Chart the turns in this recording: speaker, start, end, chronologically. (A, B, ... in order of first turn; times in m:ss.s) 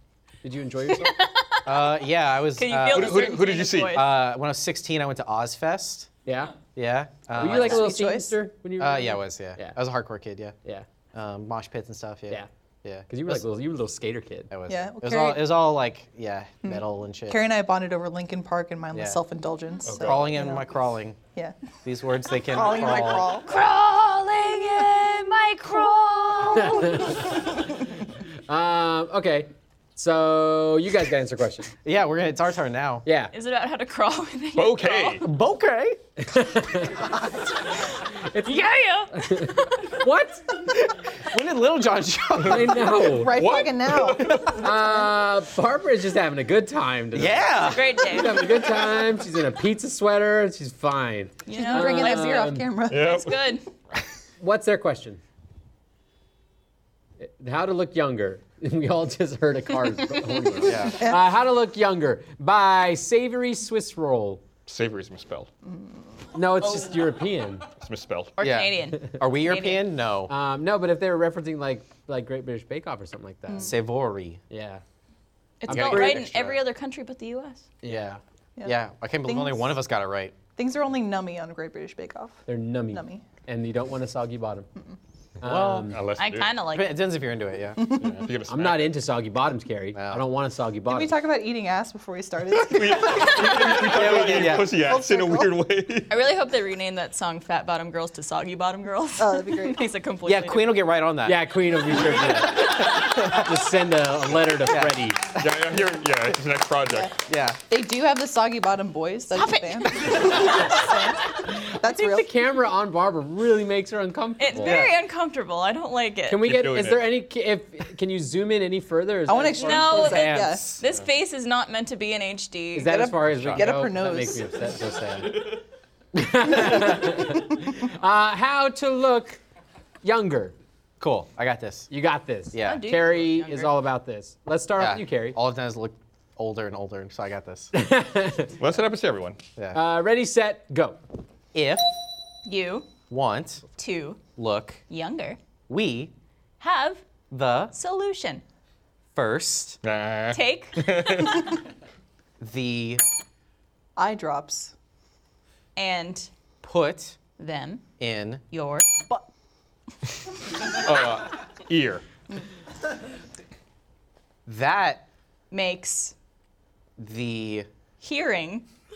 0:00.4-0:01.2 A
0:01.0-0:02.0 B
0:01.7-0:03.3 C
0:02.6-0:04.1 B
0:02.9-0:04.0 D
0:03.9-0:06.1 C
0:06.3-0:06.6 A
0:06.8-0:08.0 C
0:07.4-0:09.8 A
0:07.4-0:08.3 E
0:08.8-0:10.6 C
0:11.1-0:13.4 C
0:13.1-0:14.5 A
0:14.5-0:17.5 C
0:14.7-0:15.6 E
0:16.6-0:20.7 E
0:18.9-0:19.2 C
0:19.9-0:20.3 D
0:20.0-0:21.2 C
0:21.8-0:23.3 C
0:22.5-0:23.5 E
0:23.5-0:27.2 B
0:26.6-0:27.2 A
0:28.5-0:31.7 A
0:31.8-0:33.0 C
0:33.0-0:33.3 A
0:33.3-0:35.2 B
0:34.6-0:35.2 D
0:35.2-0:36.0 C
0:36.2-0:37.1 A
0:38.2-0:40.7 A
0:38.4-0:39.7 B
0:41.2-0:42.9 C
0:42.4-0:43.5 A
0:43.0-0:44.9 E
0:43.3-0:44.6 D
0:44.4-0:52.8 A
0:47.1-0:48.0 C
0:47.7-0:48.6 B
0:51.5-0:53.6 B
0:51.5-0:53.2 E
0:52.9-0:53.3 D
0:54.4-0:55.2 A
0:57.2-1:04.4 A
1:00.6-1:01.0 C
1:04.7-1:05.5 D
1:06.3-1:07.7 A
1:07.8-1:08.4 D
1:08.4-1:09.8 B
1:08.4-1:10.3 C
1:10.3-1:13.8 A
1:13.6-1:14.4 C
1:14.5-1:14.8 A
1:15.6-1:17.6 B
1:15.7-1:16.3 A
1:15.7-1:16.4 C
1:17.8-1:18.2 A
1:17.9-1:20.4 C
1:18.6-1:19.8 E
1:20.6-1:23.2 E
1:22.5-1:24.7 A
1:25.4-1:26.0 A
1:25.4-1:25.9 C
1:25.9-1:26.6 D
1:26.2-1:27.0 B
1:26.7-1:28.0 C
1:27.8-1:28.9 D
1:27.9-1:28.2 E
1:28.5-1:31.1 A
1:30.0-1:30.2 C
1:30.9-1:35.6 E
1:32.5-1:36.1 D
1:33.8-1:34.7 C
1:36.1-1:40.8 B
1:39.2-1:39.8 E
1:40.2-1:41.4 C
1:41.2-1:45.2 A
1:43.0-1:43.3 C
1:44.6-1:45.5 C
1:45.4-1:47.1 D
1:47.3-1:47.6 C
1:47.7-1:52.3 E
1:49.3-1:51.1 B
1:51.8-1:54.8 A
1:54.4-1:56.6 B
1:54.6-1:55.0 C
1:56.3-2:00.0 A
1:56.4-1:57.1 D
1:59.3-2:00.7 E
1:59.4-2:03.0 B
1:59.9-2:00.8 C
2:02.8-2:05.6 A
2:02.8-2:04.4 E
2:06.1-2:09.4 A
2:10.0-2:10.5 A
2:11.0-2:11.9 C
2:11.9-2:15.4 A
2:12.5-2:12.9 C
2:12.6-2:13.7 B
2:14.8-2:17.7 C
2:17.7-2:18.6 A
2:18.6-2:19.4 D
2:19.7-2:21.0 A
2:21.5-2:21.9 C
2:22.5-2:22.9 B
2:23.1-2:23.6 C
2:23.8-2:24.2 B
2:24.4-2:24.8 C
2:24.9-2:25.4 B
2:25.7-2:26.1 C
2:26.6-2:27.0 B
2:27.3-2:27.7 C
2:27.7-2:28.4 B
2:29.2-2:29.8 C
2:29.8-2:31.5 D
2:30.3-2:31.4 B
2:32.4-2:33.0 C
2:34.0-2:34.7 E
2:35.8-2:36.3 B
2:36.6-2:37.2 C
2:37.4-2:37.9 B
2:38.0-2:38.4 C
2:38.5-2:38.9 B
2:40.7-2:42.0 D
2:44.5-2:45.0 C
2:45.5-2:46.2 B
2:47.0-2:47.7 C
2:48.0-2:48.7 B